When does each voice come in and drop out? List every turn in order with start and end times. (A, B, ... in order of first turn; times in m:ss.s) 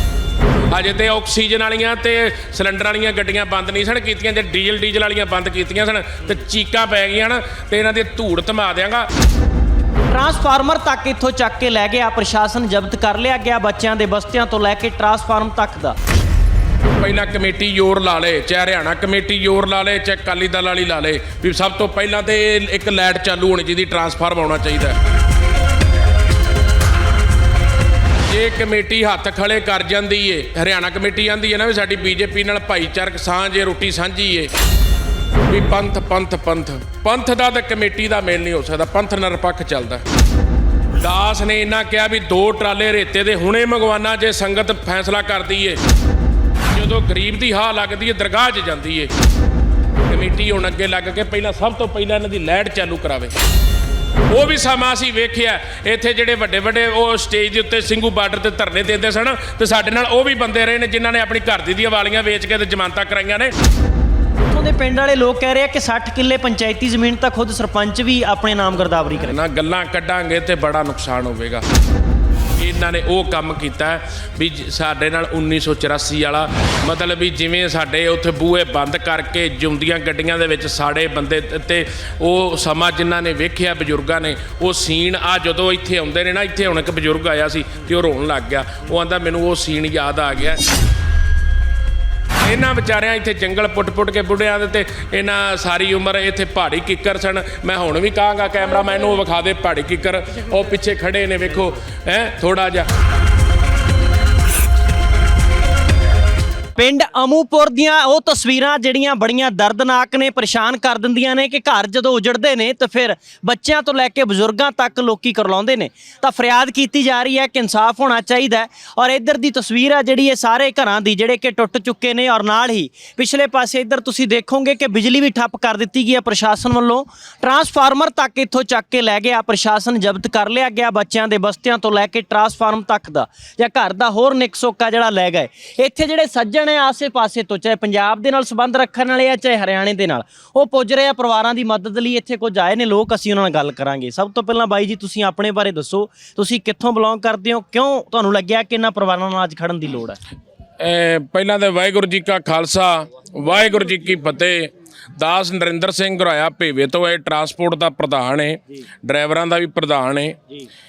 0:00.7-0:09.1 A
0:10.1-0:16.0 B
0:16.9-0:25.0 A
0:28.3-0:34.5 A
0:35.5-0:40.0 A
0:41.0-0:45.8 A
0:46.7-0:49.1 A
0:50.1-0:53.3 A
0:54.3-1:03.5 A
1:04.5-1:09.4 B
1:09.3-1:11.6 A
1:12.6-1:30.6 A
1:32.4-1:42.9 A
1:46.8-2:30.2 B
2:30.8-2:40.4 A